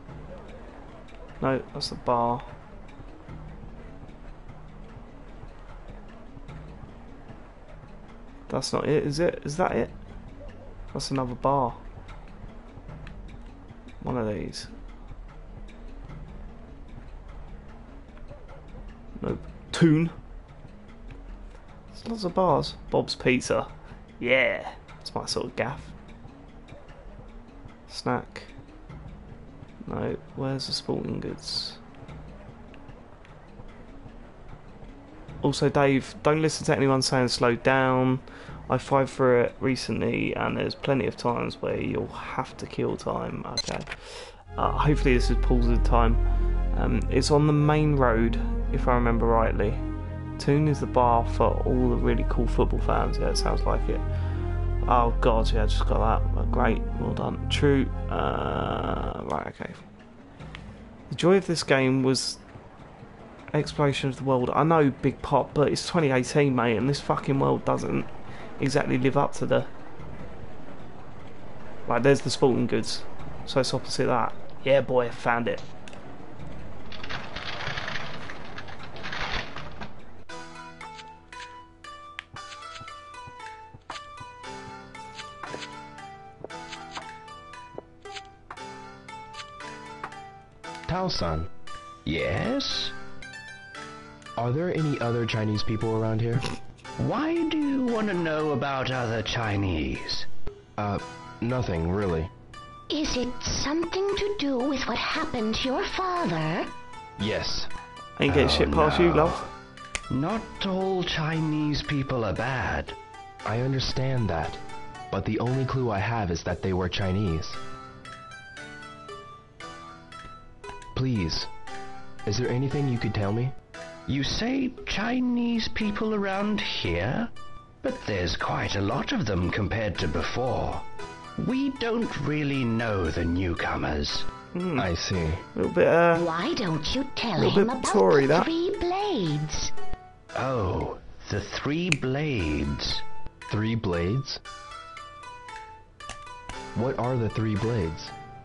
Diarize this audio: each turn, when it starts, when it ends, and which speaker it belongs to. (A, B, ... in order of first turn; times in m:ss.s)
0:01.4-0:02.5 A
0:08.5-0:09.9 A
0:10.9-0:11.8 A
0:14.0-0:14.7 A
0:19.2-0:20.1 A
0:21.9-0:25.9 A
0:27.9-0:28.5 A
0:29.8-0:31.8 A
0:35.4-0:46.2 A
0:46.7-0:49.8 A
0:50.4-0:54.0 A
0:54.8-0:59.8 A
1:01.1-1:02.4 A
1:03.5-1:09.7 A
1:11.9-1:15.6 A
1:30.9-1:31.5 B
1:32.0-1:32.9 C
1:34.4-1:36.4 B
1:37.0-1:40.3 C
1:40.8-1:42.3 B
1:42.9-1:46.7 D
1:47.2-1:47.7 B
1:48.2-1:49.5 A
1:48.2-1:49.5 B
1:50.1-1:53.0 C
1:53.4-1:57.6 B
2:00.9-2:01.5 B
2:02.2-2:03.5 B
2:04.1-2:07.3 C
2:07.8-2:10.8 C
2:11.4-2:14.2 C
2:14.5-2:14.9 A
2:14.8-2:15.4 B
2:15.5-2:16.3 A
2:16.1-2:19.7 D
2:17.4-2:18.5 A
2:20.3-2:23.0 C
2:23.5-2:24.4 B
2:26.7-2:28.1 B